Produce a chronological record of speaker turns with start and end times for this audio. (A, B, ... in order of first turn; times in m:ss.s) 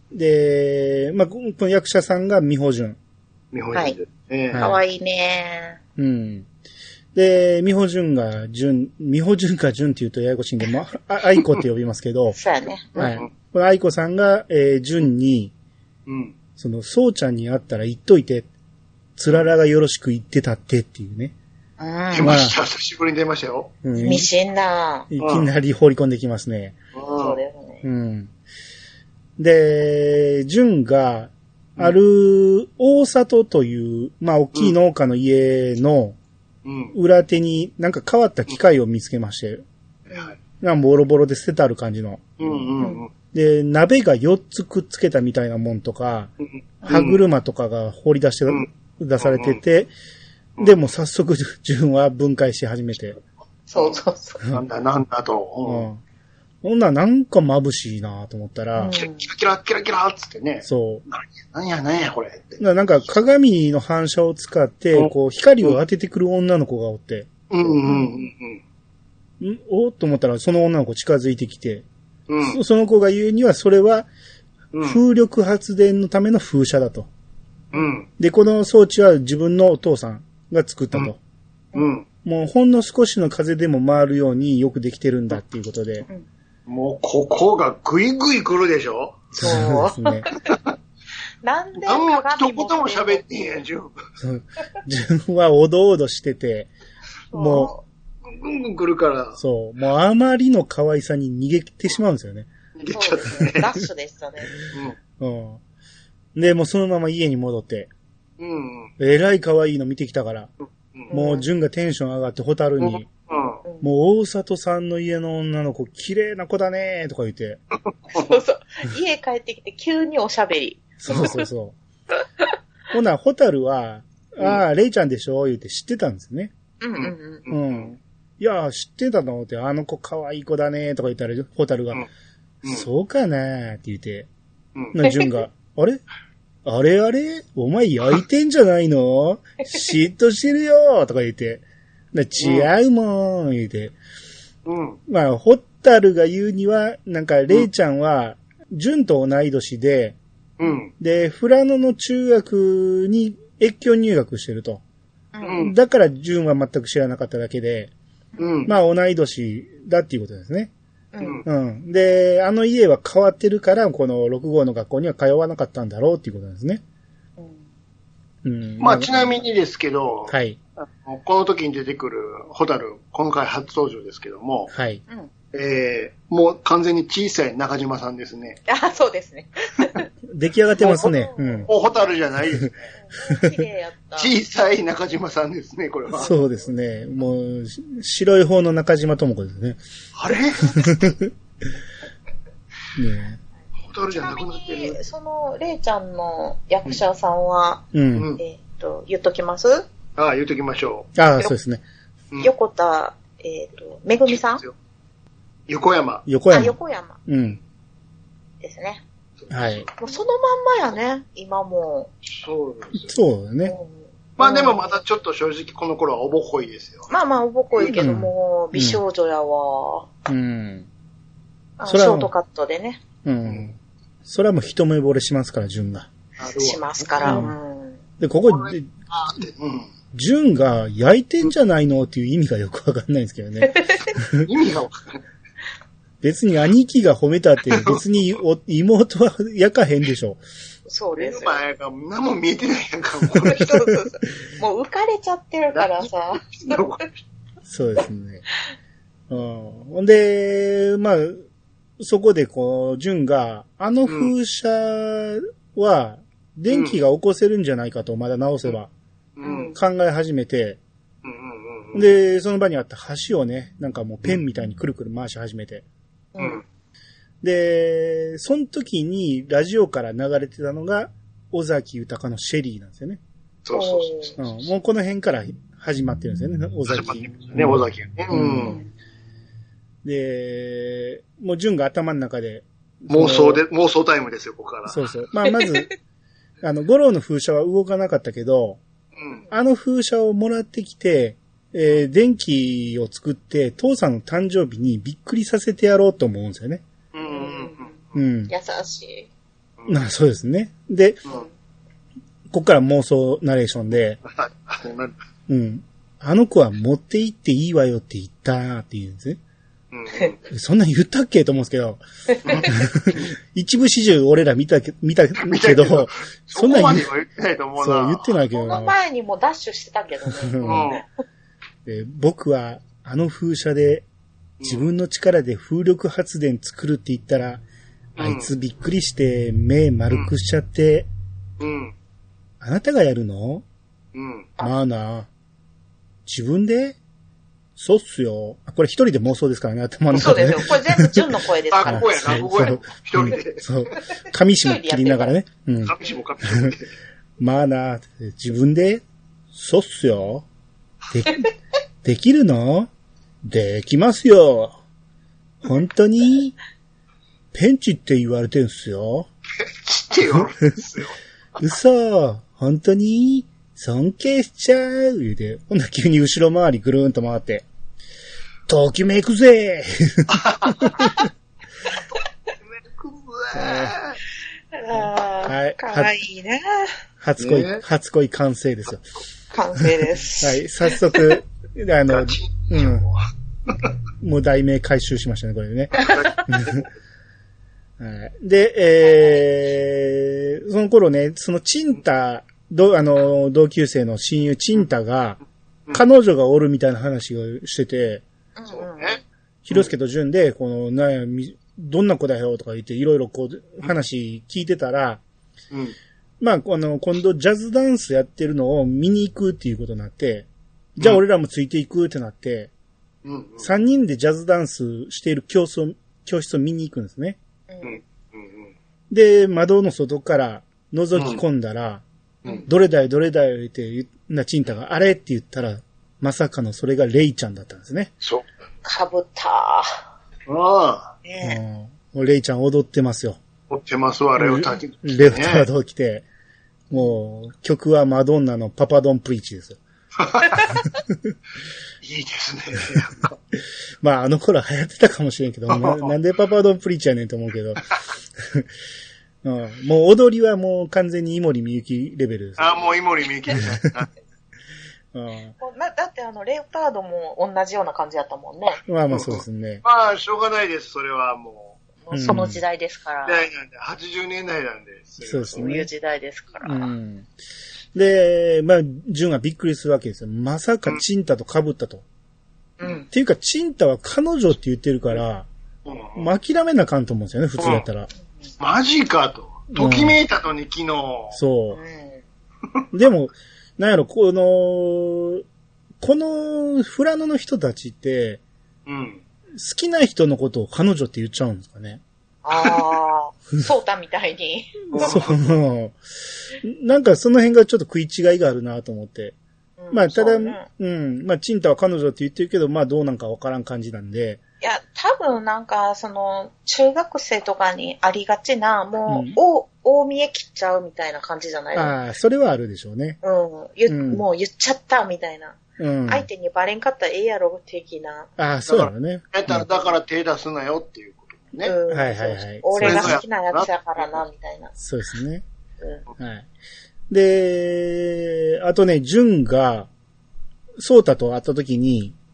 0:00.1-0:03.0 A
0:03.5-0:04.6 B
0:04.5-0:04.8 A
0:04.6-0:05.8 C
0:06.0-0:06.5 A
0:07.1-0:12.4 A
0:12.3-0:13.2 C
0:13.0-0:15.5 A
0:13.0-0:13.3 B
0:16.0-0:16.3 B
0:16.6-0:18.5 A
0:19.2-0:21.3 A
0:21.8-0:22.4 C
0:22.1-0:23.7 B
0:22.2-0:22.6 A
0:23.8-0:24.3 A
0:24.0-0:25.1 C
0:25.1-0:26.8 A
0:25.2-0:25.5 B
0:26.9-0:27.4 B
0:27.1-0:27.8 C
0:27.8-0:28.3 A
0:29.4-0:36.2 A
0:36.6-0:37.0 B
0:36.9-0:39.6 A
0:40.6-0:42.6 A
0:42.4-0:43.1 B
0:43.3-0:46.3 A
0:46.4-0:47.2 B
0:46.9-0:49.9 A
0:49.2-0:49.6 B
0:50.6-0:53.2 A
0:53.7-0:54.4 C
0:54.5-0:55.9 B
0:55.6-0:56.0 A
0:56.6-0:58.9 A
0:58.8-0:59.3 C
0:58.9-1:02.6 B
1:00.6-1:01.0 A
1:02.6-1:07.7 A
1:04.9-1:05.8 B
1:07.5-1:08.6 B
1:07.8-1:08.3 C
1:09.4-1:11.8 A
1:12.3-1:12.6 B
1:12.4-1:14.1 A
1:14.7-1:15.0 B
1:14.8-1:17.1 A
1:17.7-1:18.1 B
1:18.2-1:21.2 A
1:21.7-1:22.0 B
1:22.2-1:26.0 A
1:26.7-1:29.4 B
1:29.3-1:30.3 A
1:29.4-1:30.6 C
1:31.4-1:33.6 C
1:31.8-1:34.0 B
1:34.2-1:36.7 A
1:37.3-1:37.8 C
1:37.3-1:37.7 A
1:38.2-1:39.4 B
1:39.4-1:42.5 A
1:42.8-1:43.7 B
1:42.9-1:44.6 C
1:44.7-1:45.0 B
1:45.2-1:45.6 A
1:46.3-1:47.9 A
1:48.4-1:48.9 B
1:49.0-1:50.5 A
1:51.1-1:51.5 C
1:51.1-1:53.1 A
1:52.8-1:53.6 B
1:53.8-1:57.6 A
1:57.8-1:58.3 B
1:58.1-2:01.4 C
2:01.0-2:01.8 A
2:02.9-2:06.5 A
2:06.8-2:07.5 C
2:07.0-2:07.9 B
2:07.5-2:12.0 A
2:12.6-2:14.3 A
2:14.9-2:16.0 A
2:16.6-2:23.9 A
2:22.4-2:22.7 B
2:24.6-2:25.0 B
2:25.1-2:30.2 A
2:30.6-2:30.9 B
2:31.0-2:34.8 A
2:35.3-2:35.7 C
2:35.4-2:35.7 B
2:35.6-2:37.9 A
2:38.4-2:38.7 B
2:38.6-2:40.7 A
2:41.1-2:41.4 C
2:41.2-2:41.4 B
2:41.4-2:46.8 A
2:47.4-2:47.6 C
2:48.4-2:49.4 A
2:48.8-2:54.7 B
2:50.3-2:50.6 A
2:54.7-2:55.0 A
2:55.5-2:58.6 B
2:58.7-3:00.1 C
3:00.3-3:01.7 A
3:00.8-3:02.1 C
3:01.7-3:02.9 B
3:02.9-3:04.3 C
3:04.2-3:06.3 B
3:06.2-3:09.8 A
3:10.2-3:10.9 B
3:10.6-3:11.3 A
3:13.0-3:13.4 A
3:13.8-3:15.0 B
3:14.1-3:17.8 C
3:17.9-3:18.3 A
3:18.2-3:18.4 B
3:18.4-3:19.9 C
3:20.2-3:21.1 B
3:21.1-3:21.8 A
3:22.4-3:24.6 C
3:24.3-3:24.7 B
3:25.7-3:26.2 B
3:26.2-3:27.6 A
3:26.5-3:27.2 C
3:28.6-3:29.0 C
3:29.4-3:30.0 B
3:29.5-3:29.8 A
3:30.0-3:32.1 C
3:32.3-3:33.1 B
3:32.9-3:33.8 A
3:33.6-3:34.9 C
3:34.4-3:37.1 B
3:37.1-3:40.1 C
3:37.9-3:39.0 A
3:40.3-3:40.9 A
3:41.8-3:43.0 C
3:41.8-3:42.3 A
3:43.2-3:46.1 A
3:46.4-3:47.5 B
3:46.5-3:48.0 C
3:47.2-3:47.5 A
3:48.2-3:48.9 A
3:48.5-3:49.9 B
3:50.1-3:54.4 A
3:53.6-3:54.2 C
3:54.4-3:55.2 B
3:56.2-4:00.4 A
3:57.7-3:58.0 B
4:00.8-4:01.6 C
4:01.2-4:03.7 B
4:03.3-4:06.8 C
4:03.3-4:03.9 A
4:05.7-4:07.2 B
4:07.6-4:08.4 A
4:09.3-4:11.4 A
4:12.0-4:18.9 A
4:14.0-4:14.3 B
4:16.7-4:17.0 B
4:19.4-4:19.7 B
4:19.4-4:19.8 C
4:19.7-4:20.8 A
4:21.2-4:22.0 B
4:21.9-4:25.8 A
4:26.3-4:26.6 C
4:26.4-4:26.6 B
4:27.4-4:33.2 A
4:33.6-4:34.6 B
4:33.7-4:34.3 C
4:34.4-4:37.8 A
4:36.9-4:38.8 B
4:38.3-4:38.8 A
4:40.0-4:43.6 A
4:43.1-4:45.0 B
4:44.9-4:45.9 A
4:45.4-4:45.9 C
4:46.6-4:48.8 A
4:49.2-4:49.4 B
4:49.5-4:56.8 A
4:57.1-4:58.1 B
4:57.3-4:57.9 C
4:58.1-4:58.5 A
4:58.5-4:59.3 C
4:59.8-5:00.0 B
4:59.9-5:01.2 A
5:02.5-5:04.2 A
5:04.2-5:05.2 B
5:05.5-5:09.4 A
5:09.9-5:10.4 B
5:10.5-5:12.0 A
5:12.3-5:12.7 C
5:12.4-5:13.3 B
5:12.6-5:17.1 A
5:15.4-5:18.3 B
5:17.8-5:19.0 A
5:18.5-5:21.0 C
5:20.4-5:20.9 A
5:20.6-5:21.0 B
5:21.8-5:24.0 A
5:24.6-5:24.8 B
5:24.6-5:27.6 A
5:28.2-5:28.5 B
5:28.2-5:31.1 A
5:31.6-5:31.9 B
5:32.6-5:33.6 A
5:34.1-5:34.5 B
5:34.6-5:35.3 A
5:36.2-5:37.0 A
5:37.8-5:41.2 A
5:40.1-5:42.7 C
5:41.7-5:43.6 B
5:41.8-5:46.7 A
5:44.6-5:45.3 C
5:45.8-5:46.9 B
5:47.4-5:49.0 A
5:49.5-5:50.4 A
5:51.1-5:51.4 A
5:52.0-5:52.9 A
5:53.4-5:54.8 A
5:55.6-5:56.6 A
5:57.5-5:59.3 A
5:59.6-6:01.1 B
6:01.6-6:07.6 A
6:08.7-6:11.2 A
6:10.3-6:10.9 B
6:12.7-6:14.2 B
6:13.5-6:14.0 A
6:14.7-6:16.9 C
6:15.0-6:16.1 A
6:17.2-6:19.0 A
6:17.4-6:17.8 B
6:19.5-6:21.1 C
6:20.4-6:23.1 A
6:22.1-6:23.2 B
6:24.2-6:26.8 A
6:26.0-6:26.4 C
6:26.0-6:26.8 B
6:28.0-6:35.4 A
6:35.9-6:38.2 A
6:38.6-6:39.2 C
6:38.7-6:39.2 B
6:39.6-6:45.2 A
6:46.4-6:52.7 A
6:53.2-6:53.7 B
6:53.6-6:57.4 A
6:57.7-6:58.0 C
6:57.8-6:58.7 B
6:59.1-7:02.0 A
7:01.1-7:01.4 B
7:02.7-7:08.1 A
7:08.2-7:08.5 B
7:08.8-7:10.0 C
7:10.5-7:11.1 B
7:11.2-7:11.6 C
7:11.4-7:13.4 A
7:13.7-7:15.7 B
7:14.4-7:16.2 A
7:16.9-7:19.8 A
7:20.2-7:20.7 B
7:21.1-7:21.3 A
7:22.0-7:23.4 B
7:24.0-7:27.8 A
7:25.7-7:26.1 B
7:28.4-7:28.7 A
7:29.4-7:32.9 A
7:32.6-7:34.1 B
7:33.5-7:33.8 A
7:35.1-7:35.5 A
7:35.6-7:38.8 C
7:38.8-7:39.8 A
7:39.1-7:41.8 B
7:42.0-7:43.4 C
7:42.1-7:42.6 A
7:43.2-7:45.7 B
7:45.2-7:45.9 A
7:45.5-7:46.9 C
7:46.6-7:47.3 A
7:47.9-7:52.0 A
7:52.8-7:53.1 C
7:53.1-7:55.5 A
7:55.8-7:56.3 B
7:56.2-7:58.1 A
7:57.6-7:57.8 B
7:58.6-8:01.4 B
7:59.7-8:00.2 A
8:01.3-8:01.8 A
8:01.7-8:02.2 C
8:02.9-8:05.4 A
8:06.0-8:08.4 A
8:08.8-8:09.2 B
8:09.5-8:12.0 A
8:12.4-8:15.2 C
8:14.9-8:15.3 B
8:15.0-8:16.0 A
8:16.6-8:19.4 A
8:19.8-8:20.6 C
8:19.9-8:24.4 A
8:24.6-8:31.9 C
8:29.1-8:29.4 A
8:31.7-8:33.2 A
8:33.2-8:38.3 C
8:33.9-8:34.2 A
8:35.8-8:36.3 A
8:38.4-8:39.7 A
8:38.6-8:41.8 B
8:41.6-8:44.7 C
8:41.9-8:43.2 A
8:42.8-8:44.2 B
8:44.8-8:45.4 A
8:46.2-8:46.5 A
8:47.1-8:49.9 A
8:50.8-8:52.2 A